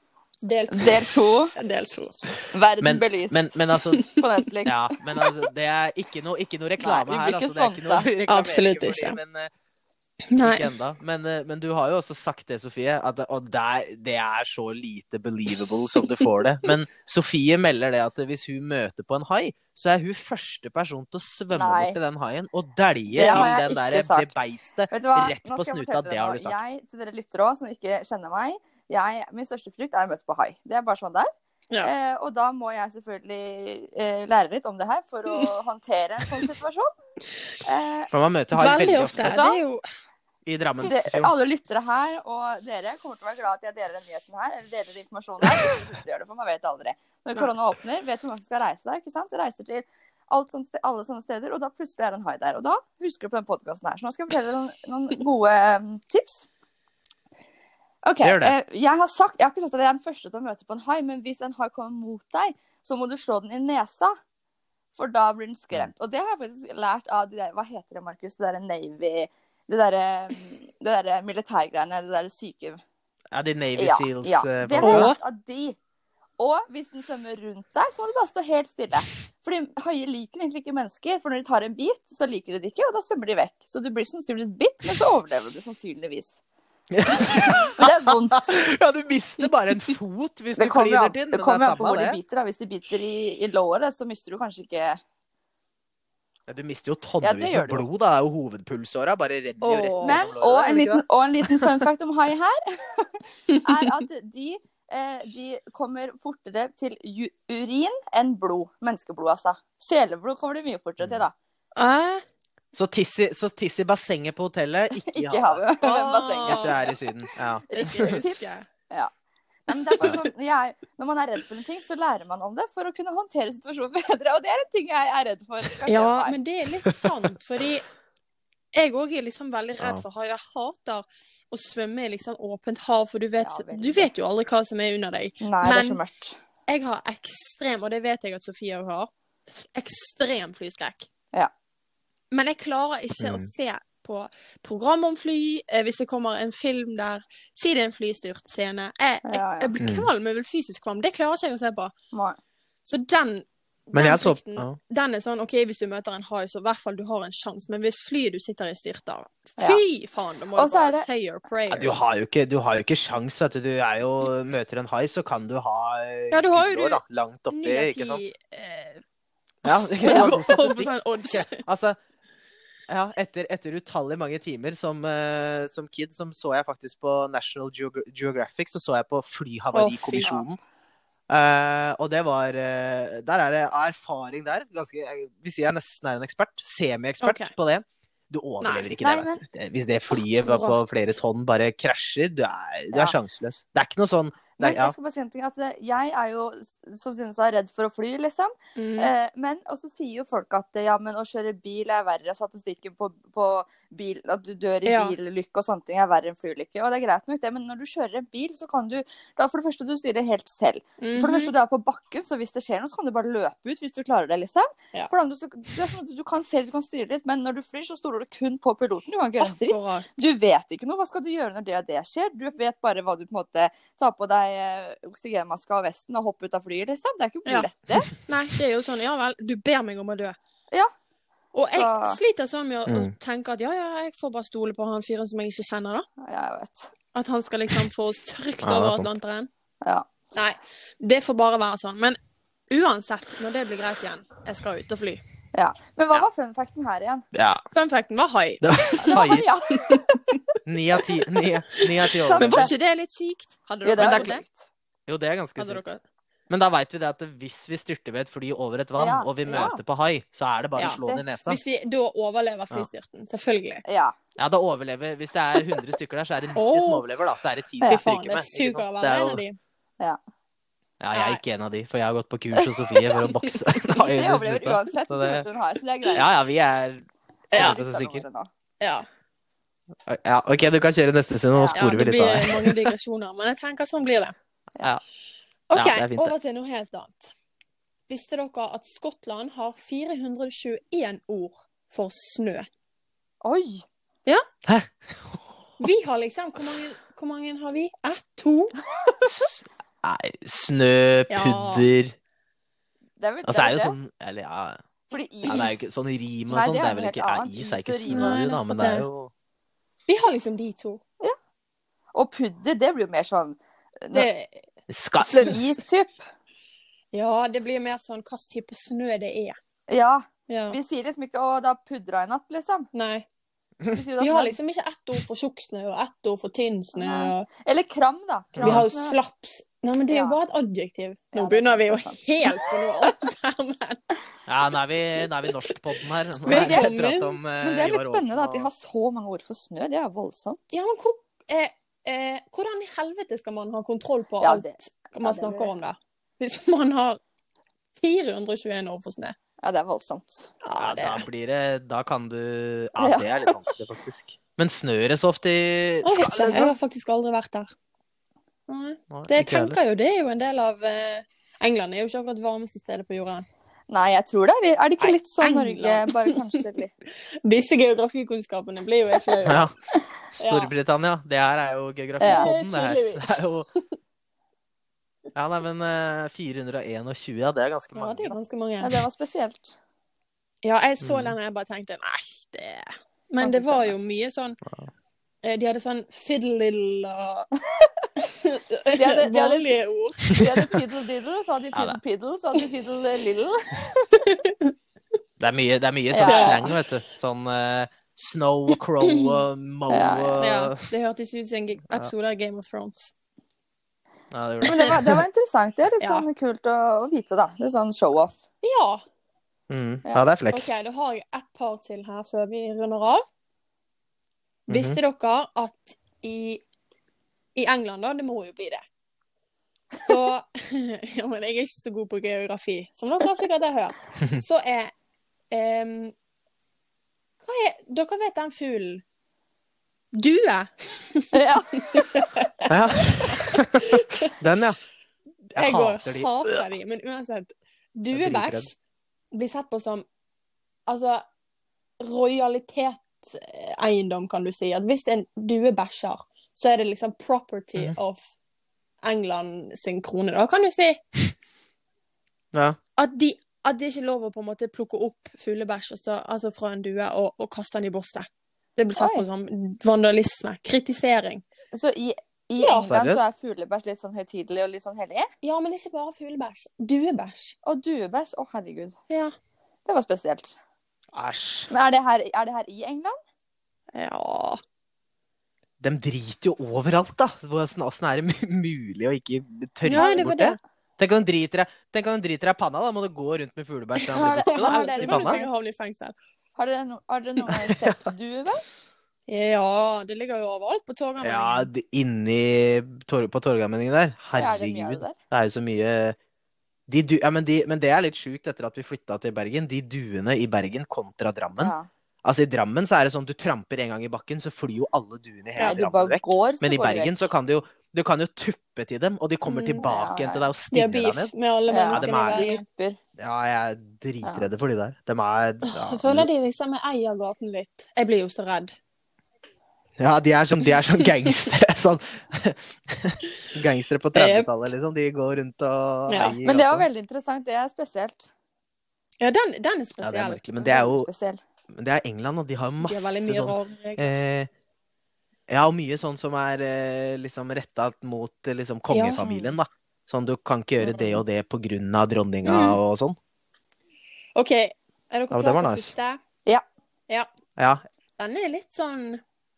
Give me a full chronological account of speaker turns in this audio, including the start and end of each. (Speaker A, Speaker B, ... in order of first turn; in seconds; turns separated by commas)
Speaker A: 0.4-2.2, Speaker B: 0.7-1.5, Speaker B: 2.5-4.9, Speaker C: 2.8-4.1, Speaker C: 4.7-9.5, Speaker B: 6.8-8.1, Speaker A: 8.3-9.2, Speaker A: 10.3-10.7, Speaker C: 10.4-26.6, Speaker B: 21.5-22.0, Speaker B: 23.1-24.3, Speaker A: 23.2-23.5, Speaker B: 24.9-31.3, Speaker B: 31.8-36.9, Speaker B: 37.6-38.1, Speaker C: 38.1-39.4, Speaker A: 38.5-39.8, Speaker B: 39.2-39.6, Speaker C: 40.5-41.3, Speaker B: 40.8-56.5, Speaker B: 58.0-64.2, Speaker C: 58.2-58.5, Speaker B: 65.0-72.8, Speaker C: 73.3-75.1, Speaker B: 73.8-75.8, Speaker A: 74.8-75.2, Speaker B: 76.4-86.4, Speaker C: 86.9-92.2, Speaker B: 87.2-88.7, Speaker B: 90.6-95.0, Speaker C: 96.5-101.0, Speaker B: 97.2-97.9, Speaker A: 99.6-100.3, Speaker B: 100.0-111.3, Speaker A: 111.8-112.2, Speaker C: 112.7-115.6, Speaker B: 115.0-116.9, Speaker A: 115.8-116.9, Speaker C: 116.5-118.2, Speaker A: 117.7-118.7, Speaker B: 117.7-119.1, Speaker B: 119.7-126.4, Speaker A: 125.9-127.8, Speaker A: 128.8-136.0, Speaker B: 133.4-134.1, Speaker B: 135.4-136.4, Speaker A: 136.7-141.1, Speaker A: 142.3-151.9, Speaker C: 143.2-143.5, Speaker B: 149.3-149.7, Speaker C: 149.8-150.1, Speaker B: 152.1-152.4, Speaker A: 152.8-162.0, Speaker C: 153.9-154.8, Speaker B: 160.6-161.1, Speaker C: 161.7-168.2, Speaker A: 166.3-169.0, Speaker A: 169.7-171.6, Speaker C: 169.7-172.0, Speaker B: 170.1-170.4, Speaker C: 172.9-180.6, Speaker A: 179.7-180.4, Speaker C: 181.3-194.9, Speaker A: 187.2-187.5, Speaker A: 188.6-188.9, Speaker B: 189.0-189.4, Speaker A: 190.2-191.1, Speaker B: 194.6-228.1, Speaker A: 198.8-199.1, Speaker A: 204.9-205.2, Speaker A: 211.0-211.5, Speaker A: 219.4-220.2, Speaker A: 228.2-230.4, Speaker A: 231.5-236.1, Speaker B: 231.7-232.2, Speaker B: 236.2-236.9, Speaker A: 237.1-239.5, Speaker C: 238.6-239.1, Speaker B: 239.8-240.1, Speaker A: 240.3-242.2, Speaker A: 242.7-245.2, Speaker B: 245.5-247.3, Speaker C: 247.3-247.6, Speaker A: 247.7-249.2, Speaker C: 248.6-249.5, Speaker B: 249.1-250.2, Speaker C: 250.7-252.7, Speaker B: 252.1-252.7, Speaker A: 252.4-254.4, Speaker B: 253.8-254.7, Speaker C: 254.0-254.3, Speaker C: 255.1-255.8, Speaker A: 255.6-256.0, Speaker C: 256.5-261.6, Speaker B: 259.0-259.7, Speaker A: 259.5-259.8, Speaker A: 260.8-263.8, Speaker B: 260.8-261.2, Speaker B: 263.9-264.2, Speaker C: 264.4-269.4, Speaker A: 266.6-267.0, Speaker A: 267.8-269.6, Speaker C: 271.0-275.4, Speaker A: 271.1-271.4, Speaker A: 272.6-273.9, Speaker B: 273.9-276.3, Speaker C: 276.1-278.2, Speaker A: 277.5-277.8, Speaker B: 277.5-278.5, Speaker A: 278.8-279.1, Speaker C: 280.1-282.9, Speaker B: 281.6-281.8, Speaker A: 281.8-284.4, Speaker A: 285.7-287.3, Speaker C: 285.7-286.3, Speaker A: 288.1-292.7, Speaker B: 293.4-293.9, Speaker C: 294.7-295.4, Speaker A: 295.8-298.8, Speaker C: 299.2-302.1, Speaker A: 301.3-301.9, Speaker B: 303.2-303.9, Speaker C: 303.4-304.8, Speaker B: 305.1-305.8, Speaker C: 305.5-309.3, Speaker B: 306.5-308.4, Speaker A: 308.1-309.1, Speaker A: 310.1-311.0, Speaker B: 312.1-314.3, Speaker A: 314.1-314.6, Speaker C: 314.9-315.8, Speaker B: 315.2-316.3, Speaker A: 317.1-319.6, Speaker B: 319.9-322.9, Speaker A: 320.5-320.8, Speaker A: 322.9-323.2, Speaker B: 323.9-324.6, Speaker A: 324.2-327.5, Speaker B: 326.9-329.2, Speaker C: 328.5-328.8, Speaker A: 328.6-334.0, Speaker B: 330.1-330.4, Speaker B: 331.3-333.1, Speaker C: 334.5-338.7, Speaker B: 336.5-337.0, Speaker A: 336.5-337.4, Speaker B: 337.6-340.8, Speaker A: 340.7-347.2, Speaker B: 344.4-345.7, Speaker A: 348.0-349.4, Speaker B: 349.6-350.5, Speaker A: 350.6-351.2, Speaker C: 350.8-356.7, Speaker B: 353.0-353.6, Speaker A: 356.0-357.7, Speaker A: 358.7-363.5, Speaker C: 359.1-359.8, Speaker B: 363.9-366.9, Speaker A: 365.0-366.6, Speaker A: 367.4-369.7, Speaker C: 369.5-369.7, Speaker C: 370.3-373.7, Speaker A: 370.4-370.7, Speaker B: 372.2-372.5, Speaker A: 372.3-373.9, Speaker C: 375.4-378.4, Speaker A: 378.0-379.0, Speaker B: 378.8-379.8, Speaker A: 380.6-384.6, Speaker C: 381.0-381.4, Speaker B: 383.4-383.9, Speaker A: 385.4-387.5, Speaker A: 388.4-390.5, Speaker B: 388.9-394.1, Speaker C: 391.7-392.0, Speaker A: 394.1-394.7, Speaker C: 395.4-400.8, Speaker B: 396.1-396.8, Speaker A: 396.3-396.7, Speaker A: 399.0-399.4, Speaker B: 399.9-400.5, Speaker A: 400.4-403.1, Speaker C: 404.3-405.2, Speaker B: 404.6-408.4, Speaker A: 406.0-406.3, Speaker A: 408.6-409.0, Speaker C: 409.7-410.7, Speaker B: 410.1-410.3, Speaker A: 410.5-413.2, Speaker A: 414.7-416.6, Speaker C: 414.7-415.0, Speaker A: 417.6-418.8, Speaker A: 420.1-424.9, Speaker A: 425.5-426.1, Speaker A: 427.4-429.0, Speaker A: 430.1-432.7, Speaker B: 431.3-432.3, Speaker C: 432.7-434.8, Speaker A: 433.2-434.3, Speaker C: 435.6-436.6, Speaker A: 435.6-438.8, Speaker C: 438.1-438.7, Speaker A: 439.3-440.1, Speaker A: 440.9-441.2, Speaker A: 442.0-448.3, Speaker A: 449.0-451.0, Speaker C: 452.5-452.8, Speaker A: 453.0-461.4, Speaker B: 459.0-459.2, Speaker B: 461.7-465.3, Speaker A: 462.6-462.9, Speaker C: 462.9-463.2, Speaker A: 465.4-467.6, Speaker B: 467.6-469.0, Speaker B: 469.9-470.6, Speaker C: 471.1-471.7, Speaker B: 471.7-473.2, Speaker A: 473.9-474.6, Speaker C: 475.8-485.4, Speaker A: 479.8-480.6, Speaker B: 479.9-480.3, Speaker A: 484.0-486.2, Speaker B: 484.1-485.5, Speaker B: 486.6-488.9, Speaker C: 487.4-488.1, Speaker A: 489.3-491.7, Speaker C: 491.2-496.2, Speaker B: 494.3-495.2, Speaker C: 496.9-501.7, Speaker B: 501.6-501.9, Speaker C: 502.2-511.3, Speaker B: 505.6-507.3, Speaker A: 509.5-509.9, Speaker B: 509.8-510.5, Speaker A: 510.7-512.6, Speaker B: 511.7-513.0, Speaker C: 511.9-512.5, Speaker C: 513.2-516.3, Speaker A: 515.6-518.8, Speaker C: 520.0-526.9, Speaker A: 524.1-524.5, Speaker A: 526.1-526.4, Speaker B: 526.4-528.3, Speaker A: 529.2-530.4, Speaker C: 530.0-531.1, Speaker B: 530.6-531.4, Speaker C: 531.7-534.5, Speaker A: 532.8-534.1, Speaker C: 535.5-543.2, Speaker A: 538.9-539.2, Speaker B: 539.2-539.5, Speaker B: 540.8-541.2, Speaker A: 542.5-542.8, Speaker A: 544.4-546.2, Speaker C: 545.3-545.9, Speaker C: 547.6-547.8, Speaker A: 548.2-549.2